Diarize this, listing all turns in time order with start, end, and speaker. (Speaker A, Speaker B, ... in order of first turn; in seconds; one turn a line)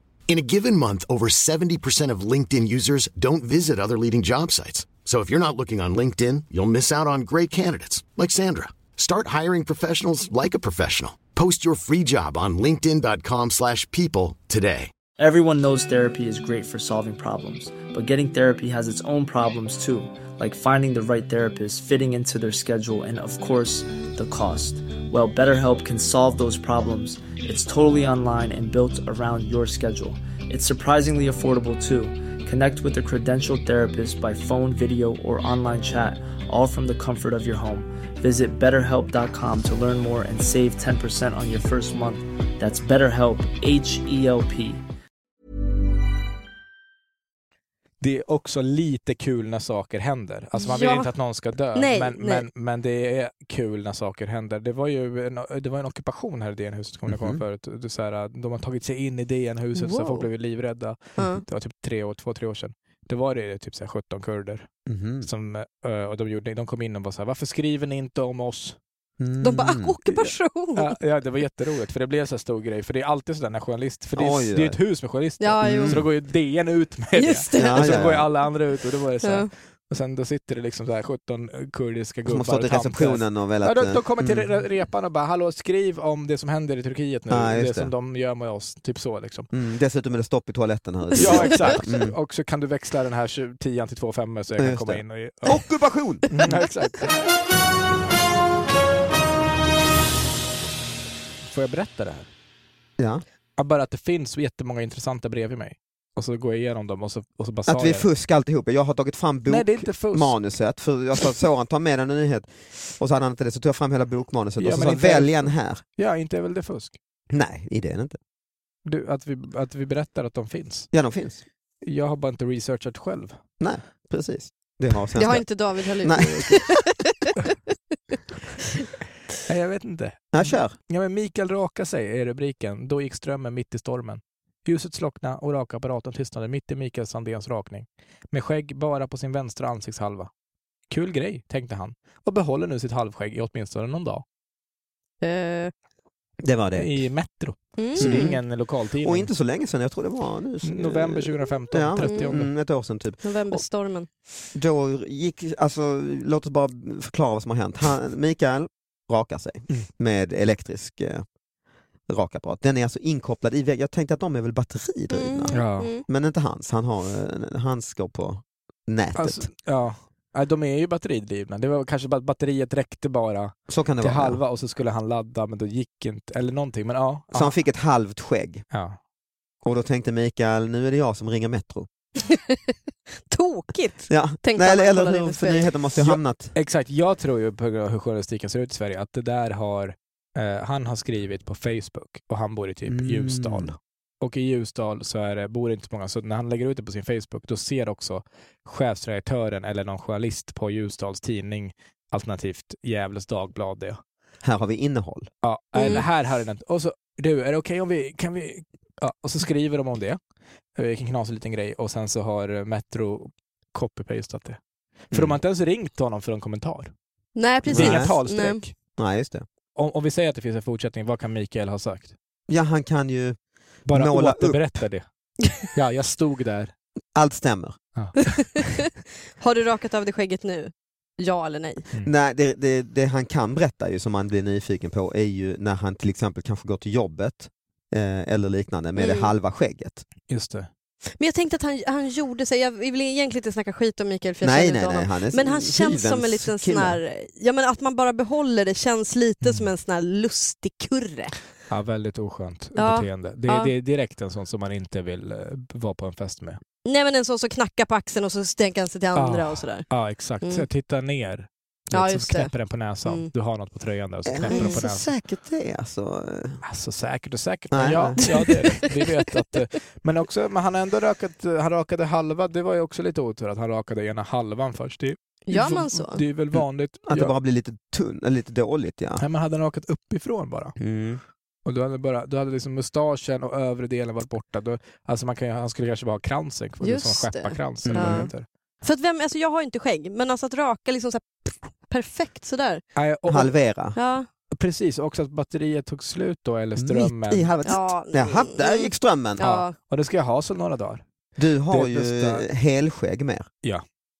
Speaker A: 0.3-14.9
Speaker B: 15.2-44.8
Speaker C: 48.0-64.7
Speaker D: 50.5-51.1
Speaker D: 51.7-52.5
Speaker E: 57.1-57.4
Speaker D: 59.8-60.3
Speaker D: 61.2-61.4
Speaker E: 64.8-65.3
Speaker C: 65.2-68.8
Speaker E: 69.2-69.9
Speaker D: 69.4-71.0
Speaker C: 70.1-89.5
Speaker E: 74.2-74.8
Speaker D: 75.4-76.0
Speaker E: 75.6-76.1
Speaker D: 77.2-78.0
Speaker E: 77.5-78.3
Speaker D: 79.2-79.5
Speaker E: 82.2-84.5
Speaker E: 87.3-87.9
Speaker E: 89.5-92.1
Speaker C: 91.2-95.6
Speaker E: 94.5-96.6
Speaker C: 96.3-97.2
Speaker C: 101.4-102.3
Speaker E: 103.0-103.2
Speaker C: 103.6-108.1
Speaker E: 107.7-115.8
Speaker C: 109.5-110.4
Speaker C: 114.6-117.0
Speaker E: 117.3-118.2
Speaker C: 118.8-120.9
Speaker E: 120.9-121.4
Speaker C: 121.8-123.4
Speaker E: 123.6-126.6
Speaker D: 125.1-127.3
Speaker C: 129.4-140.3
Speaker E: 130.3-130.8
Speaker C: 140.9-144.2
Speaker D: 145.2-145.7
Speaker E: 146.4-147.0
Speaker C: 146.7-149.3
Speaker D: 147.8-148.4
Speaker E: 148.0-148.4
Speaker E: 149.0-153.6
Speaker C: 150.6-152.5
Speaker D: 152.0-152.3
Speaker D: 153.2-154.1
Speaker E: 154.5-161.2
Speaker E: 162.1-169.4
Speaker D: 165.1-166.0
Speaker C: 165.5-165.9
Speaker C: 169.1-177.6
Speaker E: 173.7-174.4
Speaker E: 177.3-178.6
Speaker C: 178.7-179.0
Speaker E: 179.6-181.9
Speaker D: 182.2-182.8
Speaker D: 183.3-185.7
Speaker E: 184.1-186.5
Speaker C: 186.0-204.0
Speaker E: 192.9-193.7
Speaker E: 204.4-205.3
Speaker C: 205.4-210.2
Speaker D: 205.8-206.0
Speaker C: 210.7-214.6
Speaker C: 215.1-216.9
Speaker E: 215.1-215.4
Speaker D: 217.3-218.6
Speaker E: 217.7-218.1
Speaker C: 217.7-218.7
Speaker E: 219.0-219.4
Speaker C: 219.7-222.1
Speaker E: 222.5-223.4
Speaker C: 223.8-226.7
Speaker E: 223.9-224.8
Speaker E: 227.1-227.8
Speaker C: 227.9-228.4
Speaker D: 228.3-231.8
Speaker E: 232.0-240.0
Speaker D: 238.9-239.3
Speaker C: 240.3-240.7
Speaker D: 241.2-251.3
Speaker E: 244.4-247.0
Speaker C: 249.4-249.7
Speaker C: 251.7-256.6
Speaker D: 252.8-253.7
Speaker D: 256.8-259.9
Speaker C: 259.1-265.1
Speaker D: 261.9-262.5
Speaker E: 264.3-266.6
Speaker D: 264.5-264.8
Speaker C: 266.6-277.3
Speaker E: 267.7-268.3
Speaker D: 275.5-276.2
Speaker E: 276.5-279.2
Speaker C: 279.2-280.8
Speaker E: 280.8-281.2
Speaker C: 281.6-288.4
Speaker D: 286.8-288.3
Speaker E: 287.9-288.3
Speaker D: 288.8-292.8
Speaker C: 292.9-293.5
Speaker E: 293.3-293.9
Speaker D: 293.9-294.3
Speaker C: 294.5-297.5
Speaker E: 296.8-299.4
Speaker D: 297.6-299.7
Speaker C: 299.4-301.0
Speaker E: 301.4-303.5
Speaker C: 301.7-302.5